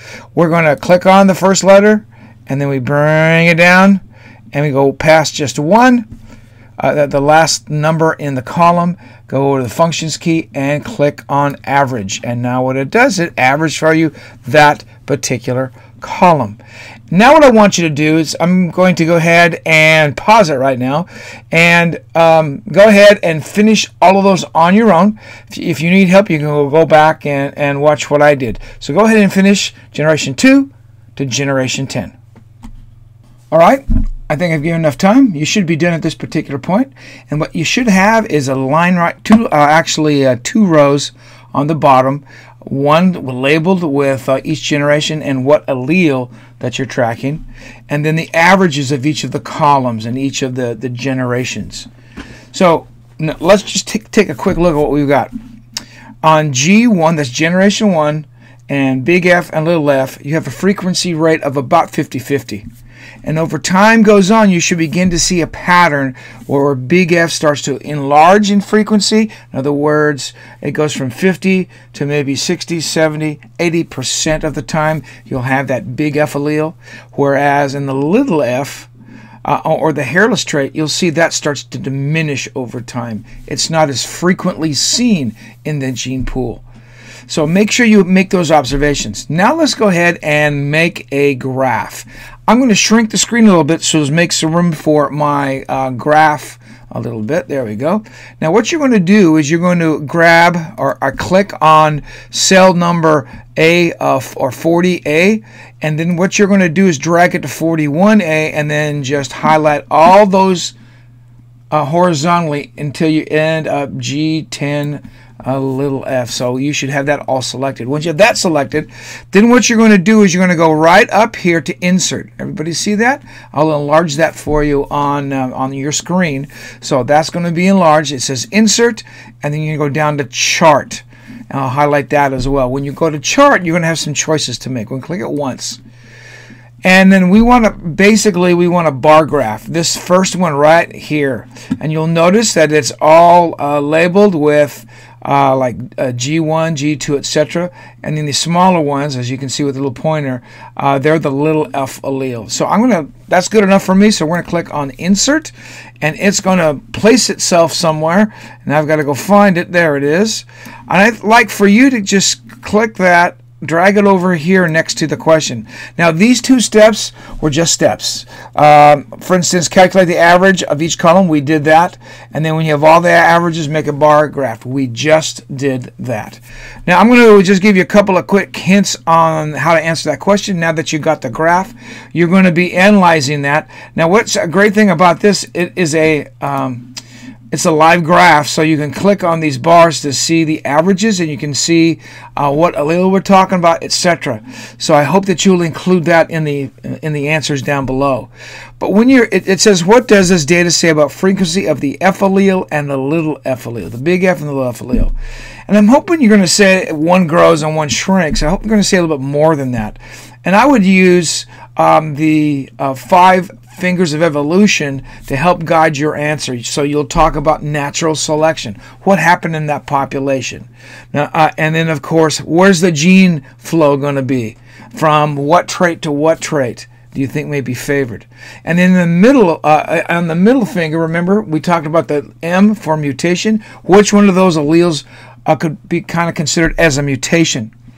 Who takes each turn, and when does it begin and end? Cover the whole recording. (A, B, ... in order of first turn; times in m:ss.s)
0:00.3-0:06.0 A
0:06.8-0:16.6 A
0:17.1-0:32.1 A
0:33.5-0:51.9 A
0:52.5-0:55.3 A
0:56.2-1:02.6 A
1:03.2-1:18.9 A
1:19.4-1:26.6 A
1:27.3-1:50.8 A
1:51.7-2:15.8 A
2:16.8-3:06.9 A
3:07.5-3:25.1 A
3:25.7-3:57.7 A